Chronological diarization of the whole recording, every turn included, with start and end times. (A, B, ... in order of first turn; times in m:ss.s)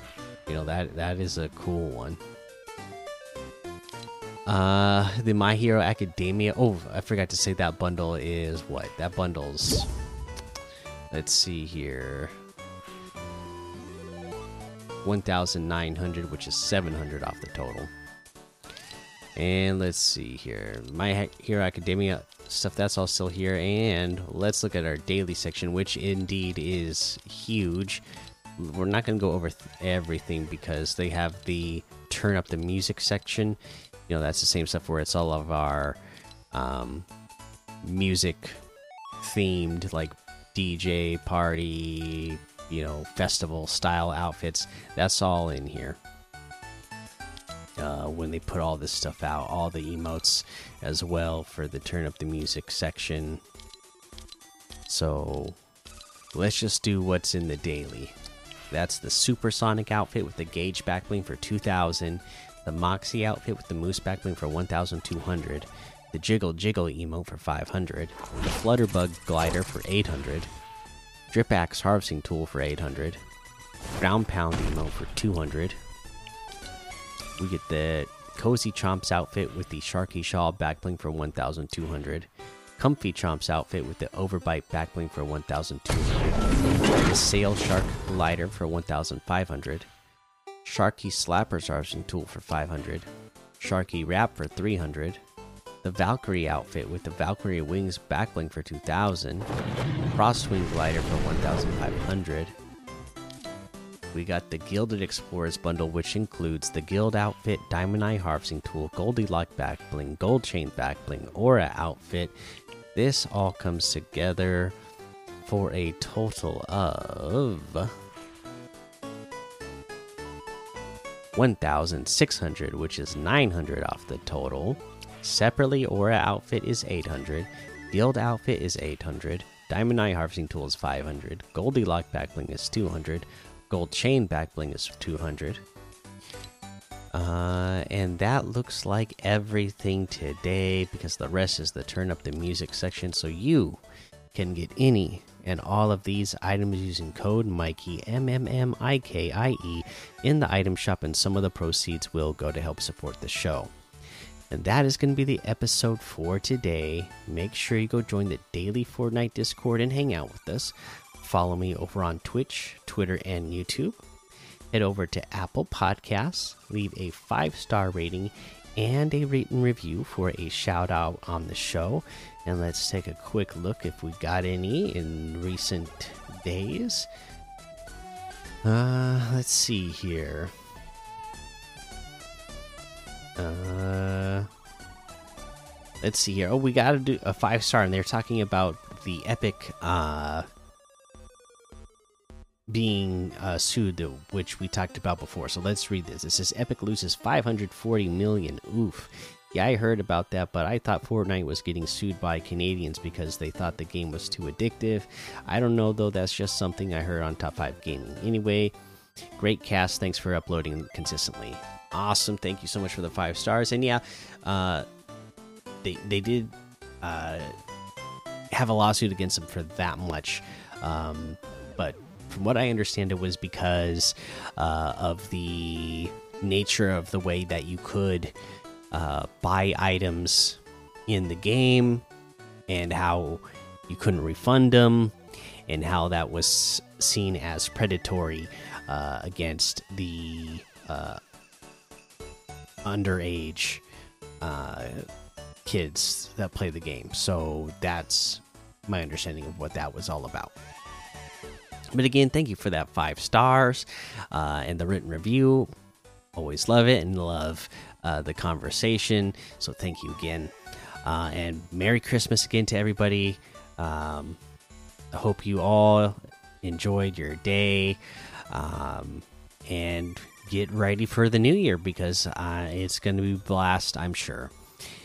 0:00.5-0:02.2 A
0:04.4-0:09.9 A
0:11.1-0:12.3 A
0:15.0-0:17.9 A
0:19.4-0:28.0 A
0:28.6-0:36.0 A
0:36.5-0:37.1 A
0:37.8-0:38.6 A
0:39.2-0:46.0 A
0:47.8-0:53.4 A
0:54.9-0:55.6 A
0:56.3-0:58.2 A
0:58.7-1:10.5 A
1:11.3-1:13.2 A
1:14.0-1:15.8 A
1:17.4-1:26.5 A
1:27.0-1:29.9 A
1:30.6-1:35.2 A
1:35.8-1:39.5 A
1:40.1-1:42.6 A
1:44.1-1:52.3 A
1:52.9-1:54.7 A
1:55.4-1:57.9 A
2:01.3-2:15.6 A
2:17.1-2:23.8 A
2:24.3-2:33.7 A
2:34.5-2:44.0 A
2:44.7-2:57.1 A
2:58.6-3:00.5 A
3:03.4-3:04.5 A
3:06.0-3:10.4 A
3:12.7-3:28.7 A
3:29.4-3:34.8 A
3:35.8-3:37.5 A
3:38.5-3:48.3 A
3:48.9-3:52.0 A
3:52.7-3:55.1 A
3:55.7-4:01.2 A
4:02.8-4:03.8 A
4:04.4-4:05.0 A
4:05.6-4:10.5 A
4:11.9-4:15.7 A
4:16.3-4:24.4 A
4:25.1-4:34.5 A